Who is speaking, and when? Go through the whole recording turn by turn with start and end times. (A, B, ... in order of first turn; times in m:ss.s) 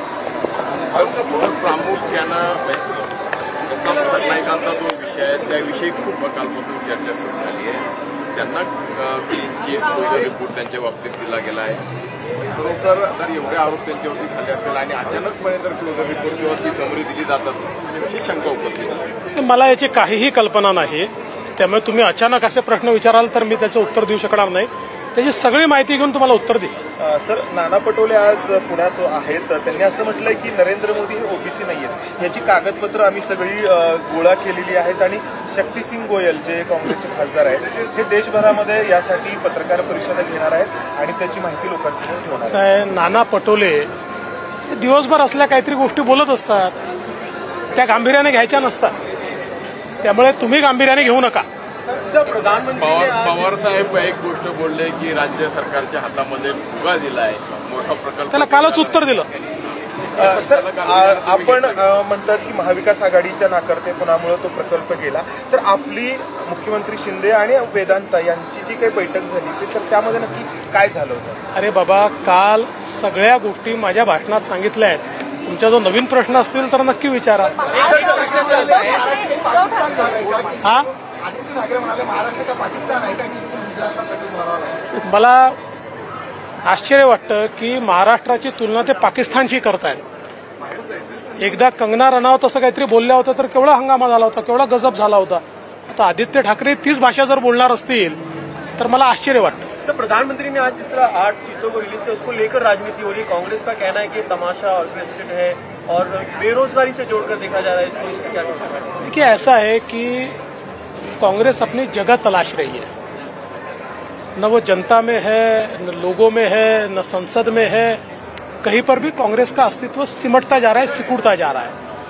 0:00.9-0:03.0 A
0:03.7-0:11.8 A
0:12.4-0:19.1 A
0:19.3-0:26.7 B
0:27.0-0:42.6 C
0:42.5-0:43.9 B
0:44.7-0:46.8 B
0:47.7-0:49.0 B
0:50.0-0:51.5 B
0:51.9-0:53.5 D
0:52.8-0:59.2 A
0:58.3-0:59.3 B
1:00.1-1:01.8 A
1:00.2-1:11.4 C
1:11.5-1:17.9 B
1:17.8-1:19.0 C
1:20.6-1:20.9 B
1:25.0-1:25.6 B
1:26.7-1:30.0 B
1:31.4-1:38.2 B
1:38.8-1:39.7 B
1:39.8-1:48.9 D
1:49.0-1:50.4 B
1:51.2-1:52.9 B
1:54.4-1:58.0 B
1:58.6-2:01.8 B